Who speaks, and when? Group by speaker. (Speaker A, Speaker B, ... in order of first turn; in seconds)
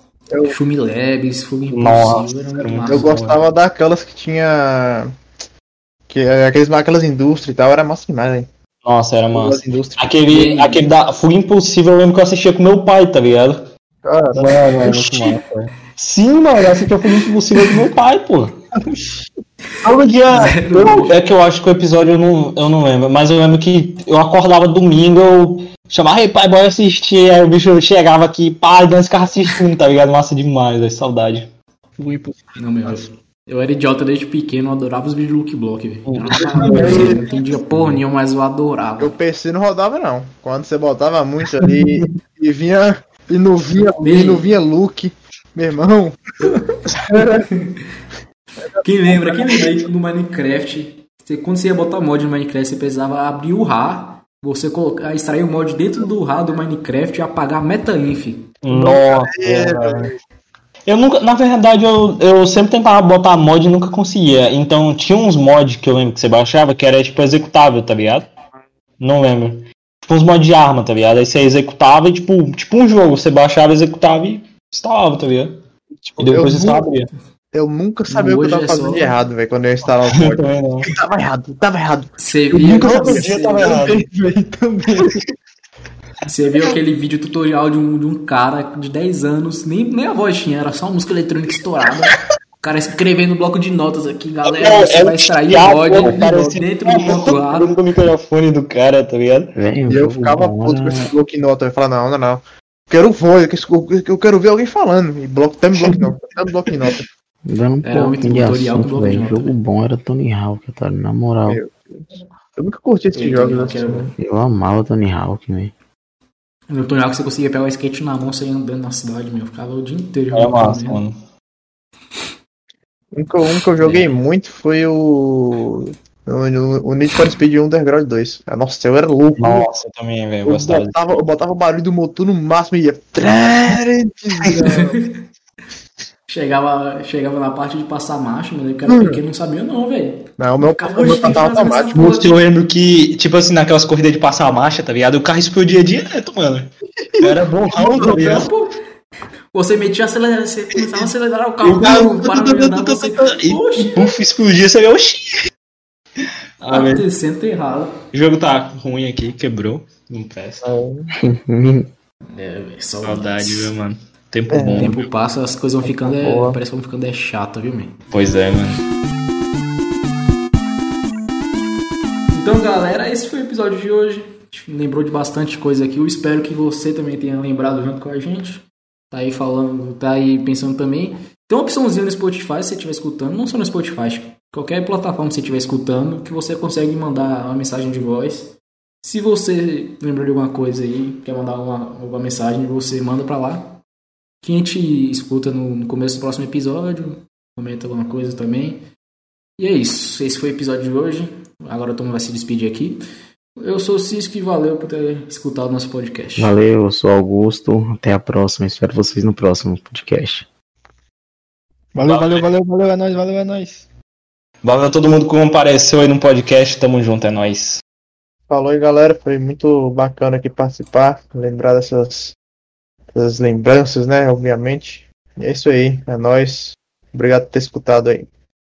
Speaker A: 0.3-0.6, 2.9-5.1, 6.1-8.5, 9.3-10.1, 14.0-14.9, 36.5-37.6, 39.0-46.6, 49.0-49.7, 58.7-60.1, 76.0-76.9, 77.5-82.1, 99.9-107.1, 111.5-112.0, 112.5-114.1, 123.1-129.7, 130.4-135.0, 138.9-139.2, 140.4-142.0, 147.1-147.3, 148.0-148.4, 160.6-161.1, 164.5-164.9, 165.8-166.6, 218.5-222.3, 223.1-228.3
Speaker B: 0.4-3.1, 10.3-10.8, 14.9-15.2, 20.3-21.2, 32.5-39.1, 44.0-44.4, 46.4-47.9, 48.8-58.5, 78.1-79.1, 82.2-83.8, 86.3-97.7, 107.8-109.5, 113.1-114.1, 116.7-121.0, 123.8-124.1, 134.6-135.2, 136.3-142.3, 147.8-148.7, 149.5-154.1, 156.7-158.0, 162.3-163.7, 164.8-168.0, 172.3-193.8, 194.4-198.8, 199.6-203.0, 203.6-206.5
Speaker C: 1.7-3.4, 8.8-13.7, 14.3-18.6, 19.8-31.5, 36.1-37.2, 58.6-60.1, 60.9-68.3, 69.0-75.6, 76.2-77.1, 80.0-80.9, 82.6-84.0, 94.4-99.5, 120.3-121.2, 129.4-131.2, 141.9-148.5, 151.6-155.4, 156.6-157.0, 158.1-160.7, 163.0-165.1, 168.1-168.8, 212.1-212.4, 214.6-217.8
Speaker D: 32.0-33.0, 82.6-85.2, 211.9-213.8
Speaker E: 99.5-101.1, 107.5-111.6, 114.2-115.7, 161.2-161.9, 206.4-210.5